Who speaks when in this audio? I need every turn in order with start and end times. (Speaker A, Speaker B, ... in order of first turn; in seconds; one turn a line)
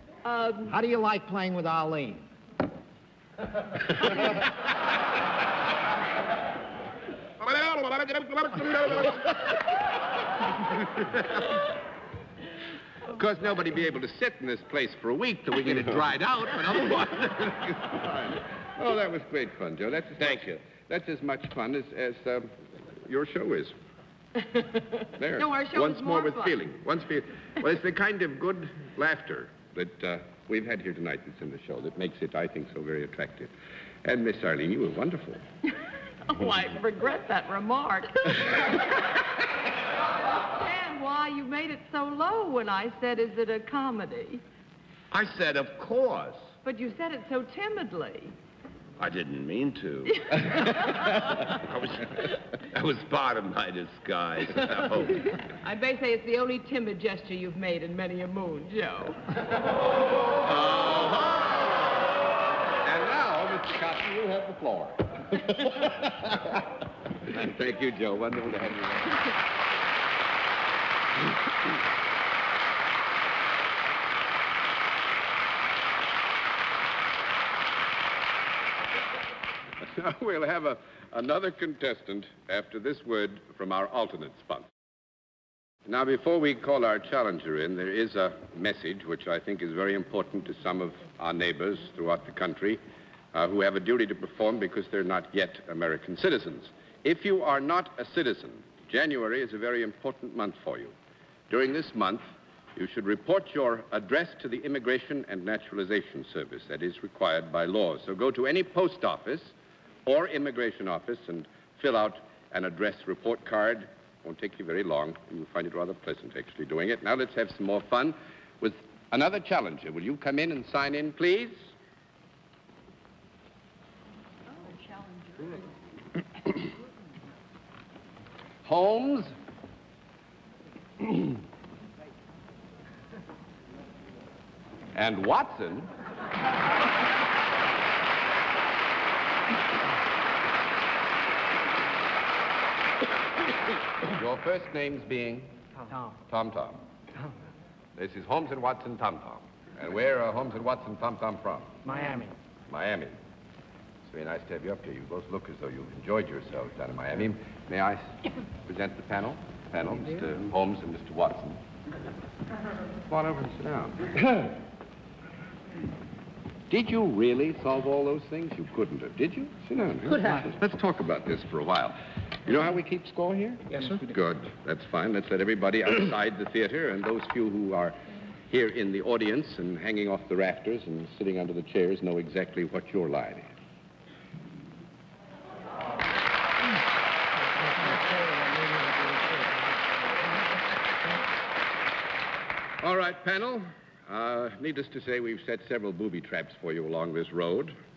Speaker A: 0.2-0.8
Speaker B: 0.7-2.2
Speaker C: 13.1-22.5
Speaker C: 23.1-23.8
Speaker C: 25.2-33.5
Speaker A: 25.4-26.5
Speaker C: 34.0-35.4
Speaker A: 36.3-38.6
Speaker A: 40.4-44.4
Speaker D: 45.1-46.5
Speaker A: 46.6-48.3
Speaker D: 49.0-55.3
Speaker A: 55.6-59.2
Speaker C: 60.4-61.9
Speaker C: 62.8-66.6
Speaker C: 67.3-69.3
Speaker C: 79.8-84.7
Speaker C: 85.9-92.8
Speaker C: 93.3-100.9
Speaker C: 101.5-109.5
Speaker C: 110.1-121.6
Speaker C: 128.7-129.3
Speaker C: 134.9-135.9
Speaker C: 144.1-145.6
Speaker C: 146.3-146.8
Speaker C: 148.0-151.9
Speaker C: 152.7-153.2
Speaker C: 154.1-161.6
Speaker C: 163.1-164.6
Speaker C: 166.7-183.5
Speaker B: 187.8-189.5
Speaker C: 192.8-197.8